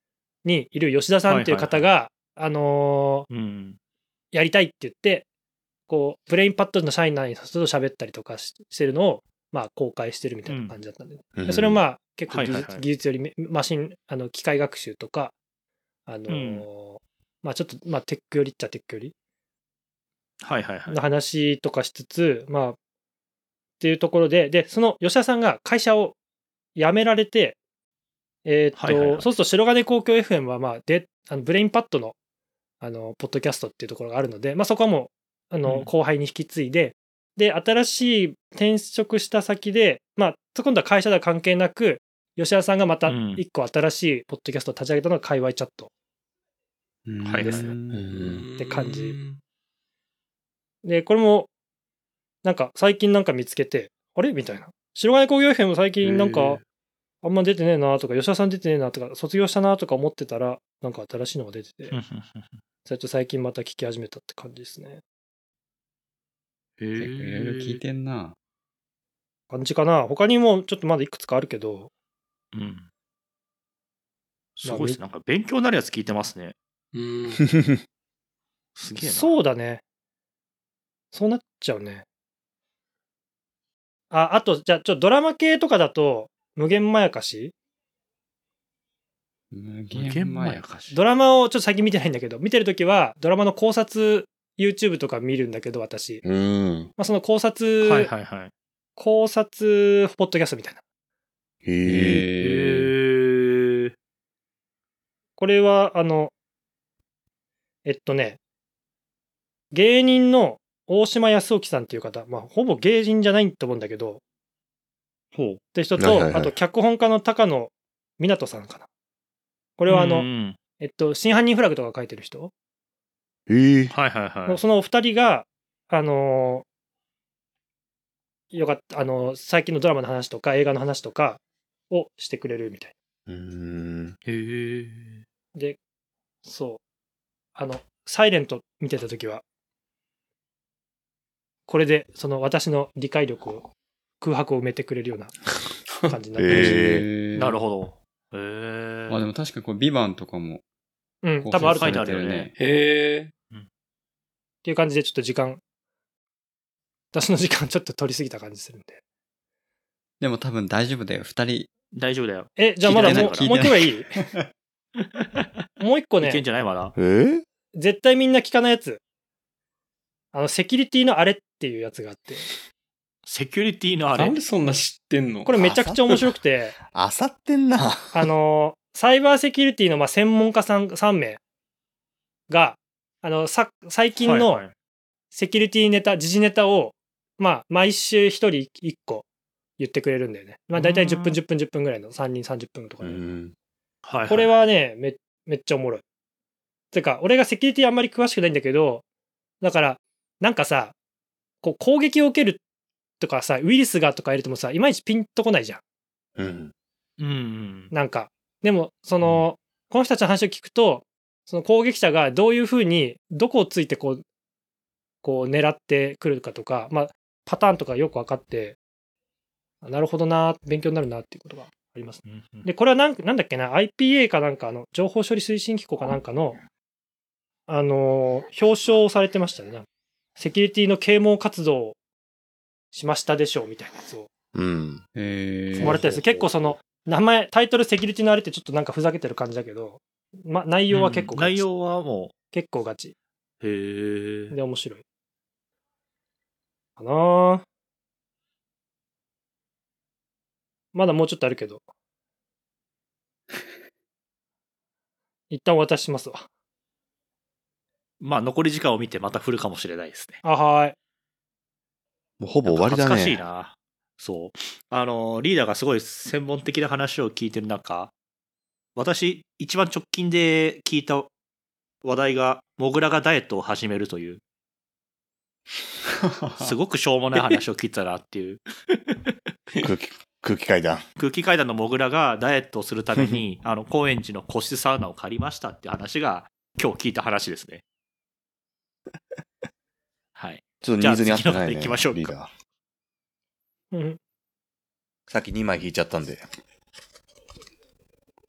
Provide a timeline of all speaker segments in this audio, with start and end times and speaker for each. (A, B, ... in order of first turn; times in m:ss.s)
0:00.4-0:03.3 A
0:01.2-0:01.9 B
0:03.3-0:03.8 B
0:04.3-0:05.2 A
0:05.9-0:15.3 A
0:10.5-0:10.7 B
0:11.3-0:11.8 C
0:12.3-0:12.8 B
0:16.0-0:19.1 A
0:16.3-0:16.6 B
0:20.4-0:21.0 B
0:20.9-0:22.8 A
0:23.8-0:26.2 A
0:26.7-0:27.6 A
0:28.4-0:32.2 A
0:28.8-0:29.3 B
0:32.8-0:45.9 A
0:35.6-0:35.9 B
0:43.0-0:43.4 B
0:47.0-0:48.2 D
0:47.2-0:47.7 B
0:47.9-0:48.4 C
0:48.1-0:49.4 E
0:48.6-0:49.2 A
0:50.8-0:51.5 A
0:52.4-0:56.6 A
0:56.0-0:56.6 B
0:57.2-1:02.0 A
1:01.9-1:02.6 B
1:02.8-1:05.0 A
1:06.8-1:07.8 B
1:07.0-1:08.4 D
1:09.5-1:11.9 A
1:12.5-1:12.9 B
1:14.6-1:16.5 B
1:14.6-1:15.0 A
1:16.9-1:17.5 E
1:18.8-1:19.3 B
1:19.0-1:19.8 A
1:21.1-1:22.0 A
1:24.1-1:27.5 A
1:29.5-1:30.7 D
1:29.9-1:31.0 B
1:30.9-1:36.2 A
1:36.2-1:36.9 C
1:37.0-1:38.1 A
1:37.8-1:38.5 B
1:39.0-1:40.8 A
1:41.6-1:42.2 C
1:41.8-1:42.9 D
1:42.4-1:43.9 B
1:45.4-1:46.3 A
1:47.8-1:48.4 A
1:49.7-1:54.2 A
1:55.3-1:55.6 B
1:55.7-1:58.9 A
1:56.0-1:56.5 C
1:59.8-2:02.5 A
1:59.9-2:00.6 B
2:03.5-2:03.9 C
2:03.9-2:04.6 B
2:04.4-2:06.6 A
2:08.5-2:12.9 A
2:13.3-2:14.2 C
2:14.2-2:15.2 B
2:16.4-2:16.8 A
2:17.5-2:19.4 A
2:21.7-2:23.7 A
2:24.2-2:25.3 A
2:26.1-2:26.8 A
2:26.4-2:27.0 C
2:26.5-2:27.6 D
2:27.3-2:29.2 B
2:29.1-2:30.6 D
2:31.2-2:32.1 A
2:31.4-2:32.5 D
2:31.6-2:32.6 B
2:32.6-2:33.3 E
2:34.6-2:35.6 A
2:37.1-2:39.0 A
2:40.2-2:41.7 D
2:41.9-2:43.8 B
2:42.6-2:44.1 A
2:42.8-2:44.4 D
2:45.2-2:45.4 B
2:45.8-2:46.4 A
2:46.2-2:46.9 B
2:47.0-2:47.4 C
2:47.7-2:49.0 A
2:50.3-2:52.4 A
2:53.2-2:54.4 B
2:54.2-2:55.5 E
2:55.4-2:56.8 A
2:55.6-2:58.3 C
2:58.1-3:01.4 A
3:02.5-3:04.6 A
3:04.2-3:04.7 B
3:05.3-3:09.2 A
3:09.8-3:13.2 A
3:10.7-3:11.4 B
3:13.0-3:13.5 C
3:14.0-3:14.5 B
3:14.3-3:16.0 A
3:16.9-3:19.0 A
3:19.6-3:20.9 A
3:21.6-3:22.6 A
3:23.2-3:25.8 A
3:26.4-3:26.7 C
3:27.2-3:27.9 B
3:27.9-3:34.2 A
3:35.2-3:38.8 A
3:39.8-3:46.6 A
3:42.2-3:42.7 B
3:47.7-3:49.8 A
3:50.4-3:52.0 A
3:52.9-3:54.3 A
3:54.5-3:55.0 C
3:55.1-3:56.0 D
3:55.8-4:01.6 A
3:55.8-3:56.7 C
4:00.9-4:02.3 B
4:02.5-4:03.1 A
4:03.6-4:04.6 B
4:04.5-4:05.0 A
4:07.0-4:07.6 A
4:10.9-4:11.8 A
4:15.5-4:16.5 A
4:18.2-4:20.4 B
4:20.4-4:20.9 A
4:22.4-4:23.4 C
4:22.6-4:28.1 B
4:29.0-4:31.3 B
4:32.0-4:34.4 B
4:36.2-4:36.8 D
4:36.6-4:38.6 B
4:39.8-4:41.0 C
4:41.2-4:47.8 B
4:50.4-4:52.3 B
4:50.8-4:52.5 C
4:53.9-4:54.2 A
4:55.3-4:56.4 C